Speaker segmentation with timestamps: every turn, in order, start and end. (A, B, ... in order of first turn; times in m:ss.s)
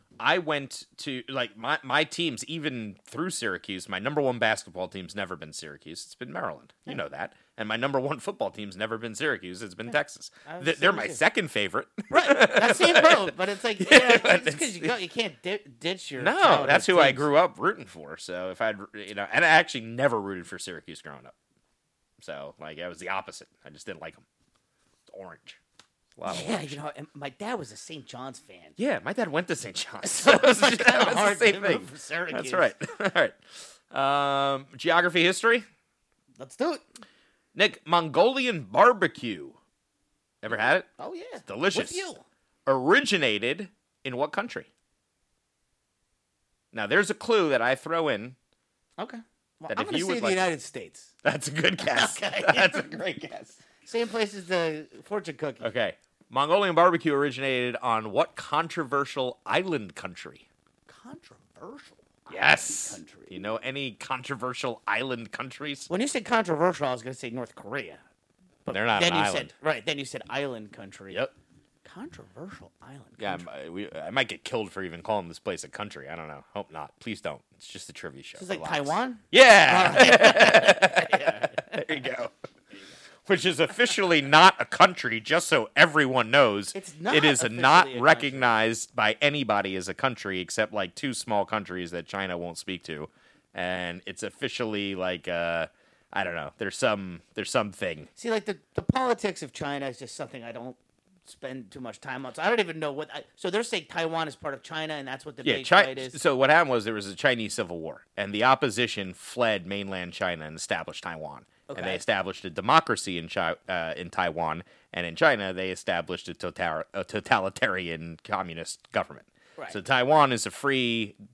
0:00.2-0:15.0 A
0:10.5-0:11.2 B
0:12.1-0:17.3 B
0:16.2-0:21.4 A
0:22.2-0:24.2 A
0:25.1-0:25.6 A
0:26.2-0:26.8 A
0:26.3-0:28.8 B
0:28.8-0:35.7 A
0:30.0-0:32.7 B
0:36.4-0:36.8 B
0:37.6-0:39.6 A
0:40.4-0:40.9 A
0:41.0-0:42.2 B
0:41.5-0:42.1 A
0:42.7-0:44.7 A
0:46.7-0:48.4 A
0:49.0-0:51.1 B
0:49.7-0:50.5 A
0:51.2-0:53.6 A
0:51.8-0:52.9 B
0:53.8-0:55.7 B
0:55.6-1:00.4 A
1:00.9-1:03.4 B
1:02.3-1:05.9 A
1:05.9-1:08.0 B
1:08.6-1:11.2 B
1:08.7-1:09.5 A
1:11.8-1:13.5 B
1:13.2-1:22.3 A
1:18.4-1:22.1 B
1:23.3-1:38.1 A
1:26.7-1:28.6 B
1:38.2-1:46.2 B
1:45.4-2:01.2 A
1:51.7-1:52.0 B